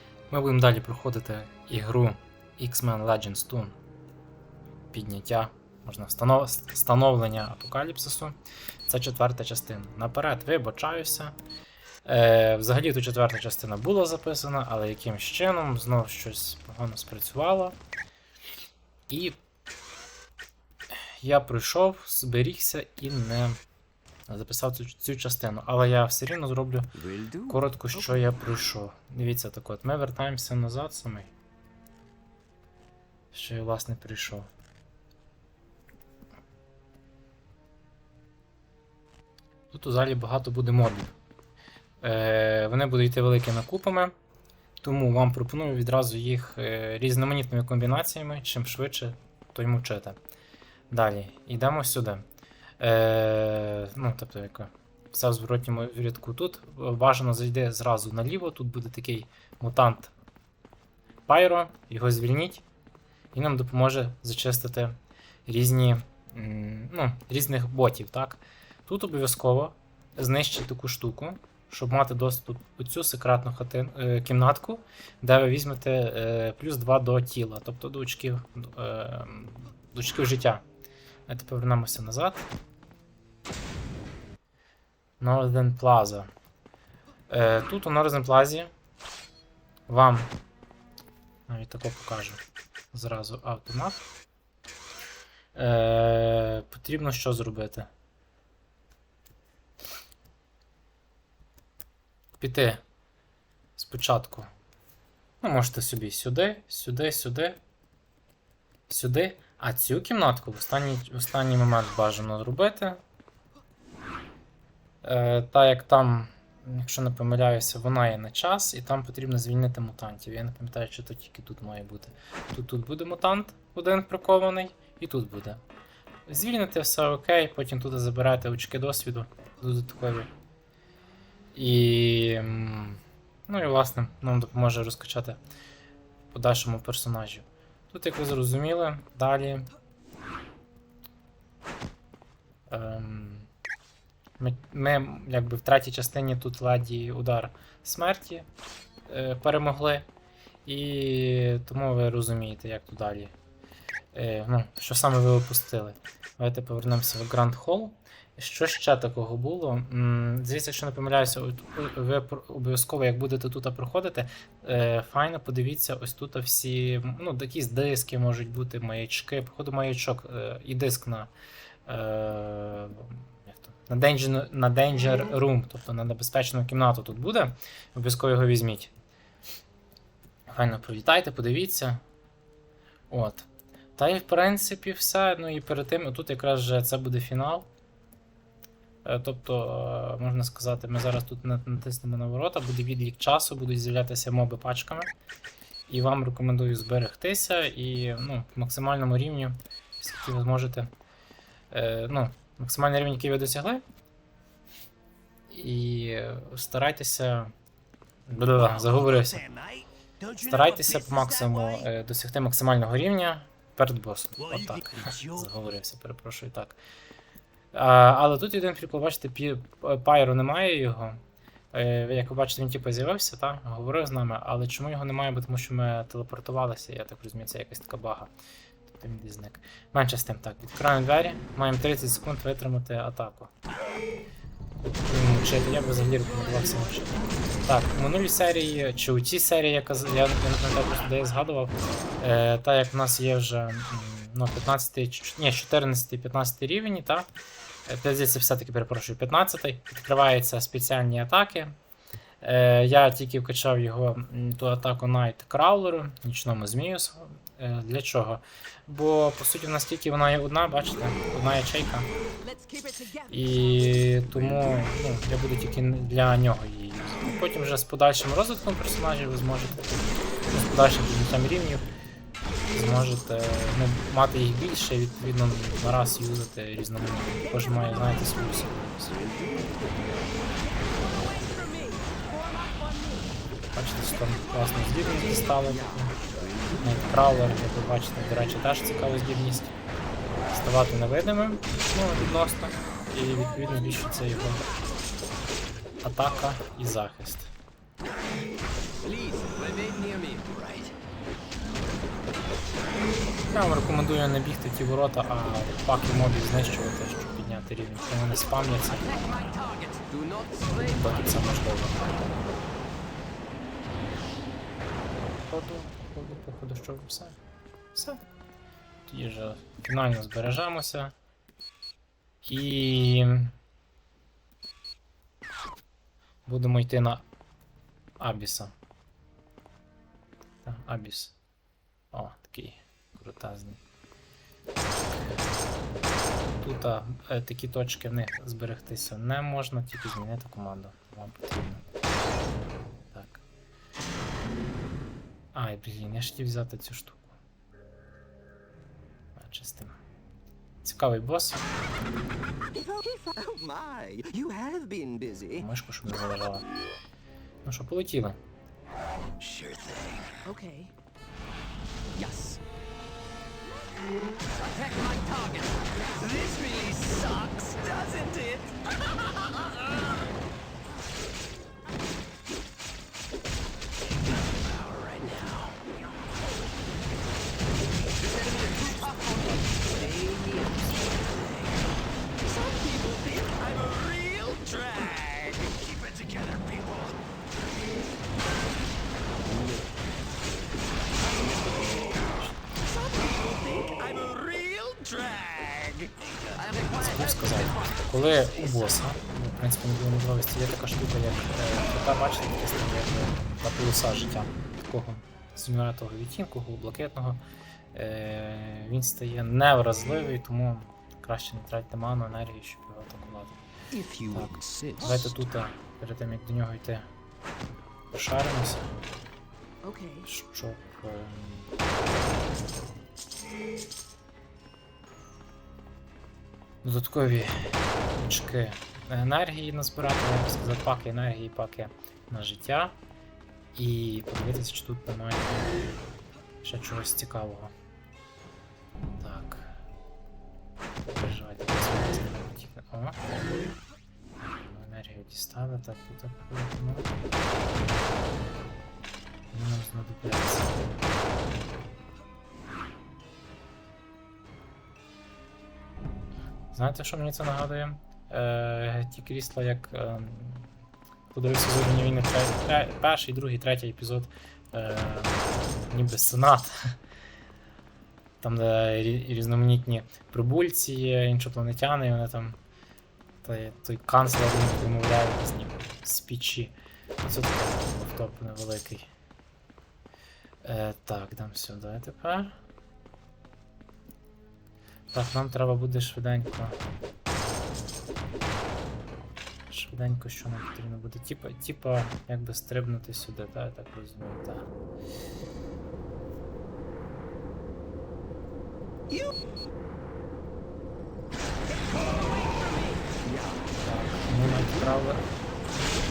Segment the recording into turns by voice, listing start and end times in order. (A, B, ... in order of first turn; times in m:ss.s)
0:00.3-0:03.8 A
0:04.9-0:11.4 A
0:12.0-0:17.8 A
0:19.1-0:19.4 A
0:20.9-0:23.6 A
0:24.3-0:26.9 A
0:27.0-0:27.4 B
0:27.5-0:31.3 A
0:33.3-0:34.5 A
0:39.7-0:41.1 A
0:42.0-0:44.1 A
0:44.8-0:50.2 A
0:50.9-0:52.2 A
0:52.8-1:00.1 A
1:01.3-1:02.6 A
1:03.3-1:20.6 A
1:21.3-1:22.5 A
1:25.2-1:26.3 A
1:27.3-1:28.7 A
1:29.9-1:30.3 A
1:31.5-1:32.4 A
1:32.9-1:34.1 A
1:35.5-1:37.9 A
1:42.4-1:42.8 A
1:43.8-1:44.5 A
1:45.4-1:47.6 A
1:48.9-1:53.0 A
1:55.0-2:05.6 A
2:06.3-2:10.3 A
2:11.5-2:15.4 A
2:16.3-2:19.7 A
2:22.7-2:23.5 A
2:24.4-2:28.5 A
2:29.1-2:30.0 A
2:30.6-2:33.3 A
2:34.1-2:51.3 A
2:51.9-2:58.9 A
3:00.5-3:02.0 A
3:03.1-3:07.7 A
3:09.0-3:15.1 A
3:15.9-3:20.9 A
3:21.7-3:23.8 A
3:25.5-3:27.5 A
3:28.3-3:29.5 A
3:29.4-3:29.8 B
3:30.3-3:36.8 A
3:37.7-3:41.2 A
3:41.7-3:48.3 A
3:48.9-3:53.5 A
3:54.8-4:07.3 A
4:07.9-4:11.7 A
4:12.4-4:22.1 A
4:22.4-4:23.3 C
4:23.3-4:31.8 A
4:32.7-4:39.2 A
4:39.3-4:39.8 B
4:41.1-4:43.3 C
4:43.7-4:46.2 A
4:46.2-4:46.8 B
4:46.8-4:49.8 A
4:50.5-4:54.7 A
4:56.0-4:57.5 A
4:59.0-5:00.5 C
5:00.5-5:00.9 B
5:03.5-5:09.5 A
5:09.1-5:10.8 C
5:10.7-5:12.1 A
5:15.5-5:17.4 A
5:17.9-5:18.2 A
5:19.0-5:21.1 A
5:22.4-5:23.5 A
5:26.4-5:27.2 A
5:28.2-5:28.7 A
5:30.6-5:31.3 A
5:32.1-5:33.8 A
5:36.6-5:41.8 A
5:43.1-5:43.4 A
5:45.5-5:47.4 A
5:49.4-5:50.0 A
5:50.8-5:51.6 A
5:52.8-5:55.6 B
5:53.7-5:54.3 C
5:55.5-5:56.6 A
5:57.6-5:58.4 A
5:59.4-6:00.4 B
6:00.4-6:00.9 C
6:02.2-6:02.6 C
6:04.6-6:08.6 C
6:06.3-6:08.7 B
6:14.8-6:15.8 B
6:18.2-6:21.0 C
6:21.0-6:21.7 B
6:22.4-6:27.1 B
6:22.6-6:25.6 C
6:29.6-6:30.0 B
6:31.2-6:32.7 A
6:33.0-6:36.1 B
6:33.2-6:38.1 C
6:36.9-6:47.4 A
6:47.9-6:53.6 A
6:53.9-6:55.1 B
6:54.3-6:57.1 A
6:58.1-6:58.9 A
6:59.8-7:00.2 C
7:00.2-7:01.7 A
7:06.8-7:13.0 A
7:13.7-7:15.9 A
7:16.6-7:17.7 A
7:19.2-7:19.7 A
7:21.1-7:23.3 A
7:24.4-7:27.1 A
7:27.8-7:28.4 A
7:29.5-7:31.1 A
7:36.7-7:40.7 A
7:41.3-7:46.9 A
7:48.4-7:52.6 A
7:53.4-7:59.1 A
8:00.6-8:02.6 A
8:05.1-8:06.8 A
8:09.7-8:14.7 A
8:23.8-8:25.3 A